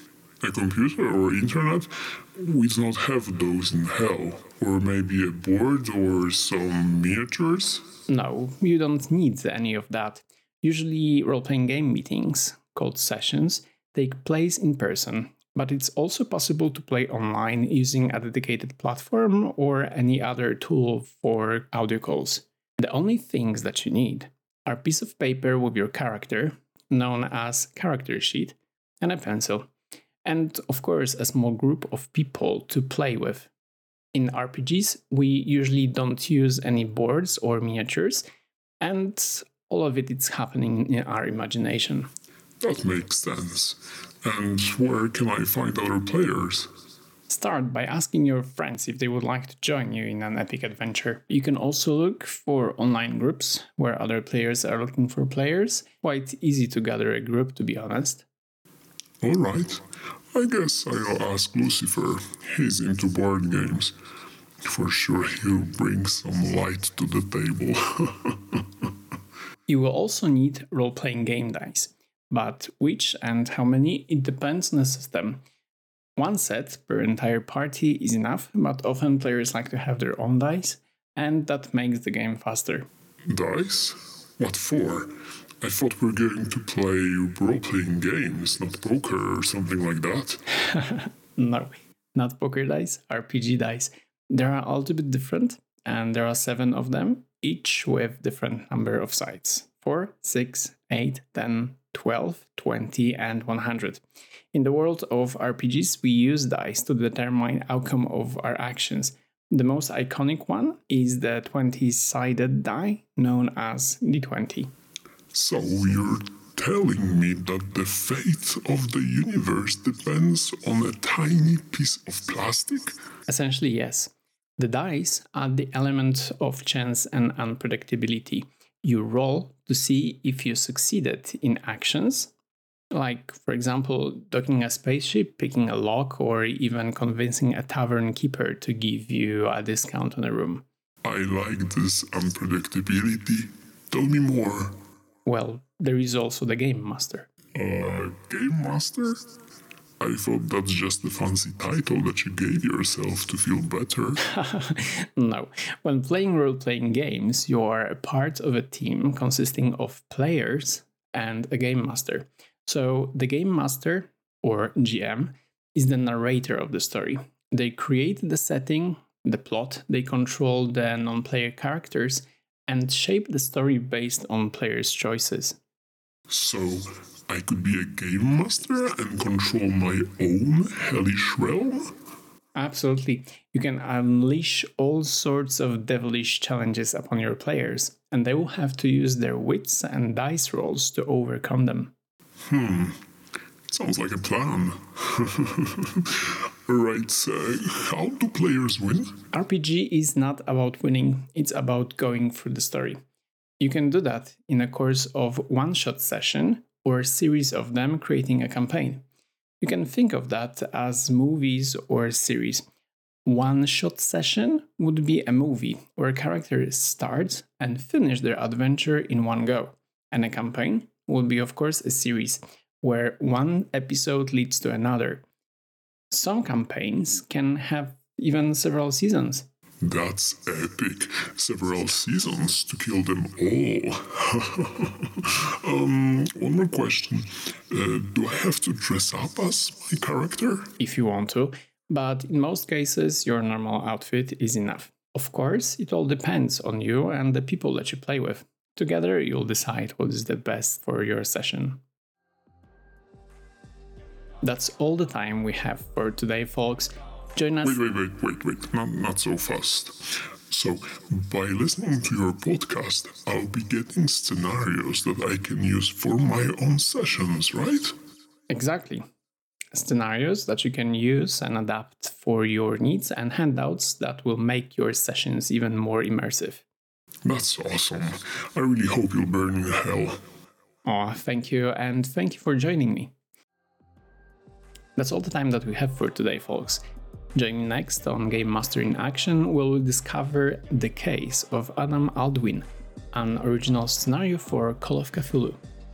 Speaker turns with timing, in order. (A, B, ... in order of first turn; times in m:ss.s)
0:00.4-0:07.9 A
0:08.1-0:29.7 B
0:30.2-0:33.5 B
0:34.1-0:38.2 B
0:38.8-0:42.1 B
0:42.6-0:46.7 A
0:47.3-0:58.2 B
0:59.2-1:03.9 A
1:04.6-1:08.6 A
1:09.7-1:15.4 B
1:16.2-1:22.9 B
1:23.3-1:30.4 A
1:30.5-1:54.7 B
1:55.3-2:03.0 A
2:03.3-2:12.3 B
2:12.9-2:20.6 B
2:21.0-2:24.7 A
2:25.2-2:27.3 B
2:27.5-2:29.3 A
2:30.0-2:34.2 A
2:34.2-2:55.6 B
2:56.3-3:01.9 A
3:02.5-3:11.9 B
3:12.5-3:13.0 A
3:13.7-3:19.2 A
3:19.3-3:23.0 B
3:23.6-3:29.0 B
3:29.6-3:32.6 B
3:33.2-3:45.2 B
3:46.1-3:49.5 B
3:49.8-4:00.7 A
4:00.8-4:11.8 B
4:14.4-4:17.8 B
4:17.6-4:27.9 A
4:28.5-4:29.0 B
4:29.7-4:36.6 B
4:37.2-4:40.2 A
4:40.8-4:43.1 B
4:45.0-4:46.8 B
4:47.3-4:55.6 B